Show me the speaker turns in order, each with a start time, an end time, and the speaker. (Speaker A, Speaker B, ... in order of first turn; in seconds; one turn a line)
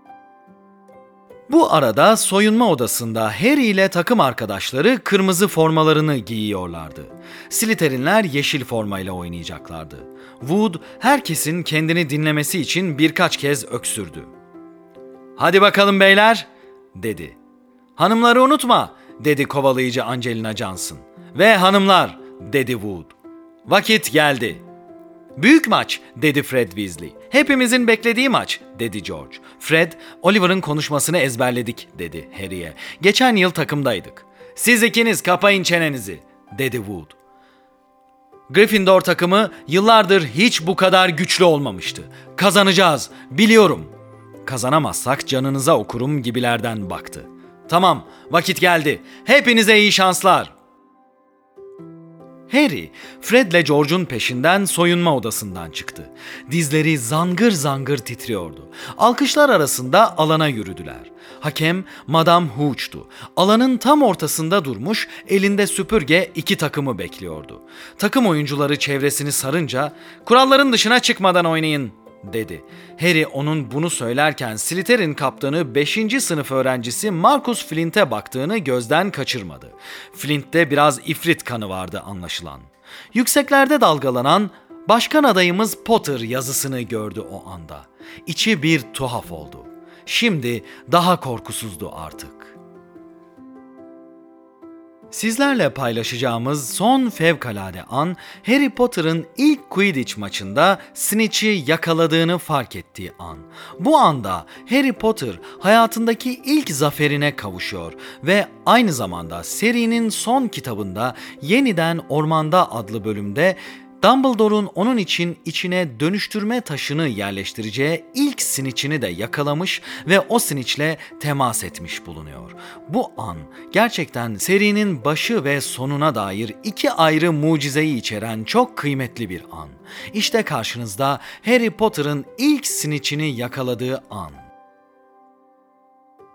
Speaker A: 1.5-14.3
Speaker A: 15.4-17.4
Speaker A: 18.0-23.1
Speaker A: 23.6-24.6
Speaker A: 25.4-37.1
Speaker A: 38.5-43.9
Speaker A: 44.4-50.5
Speaker A: 52.5-92.5
Speaker A: 95.1-134.4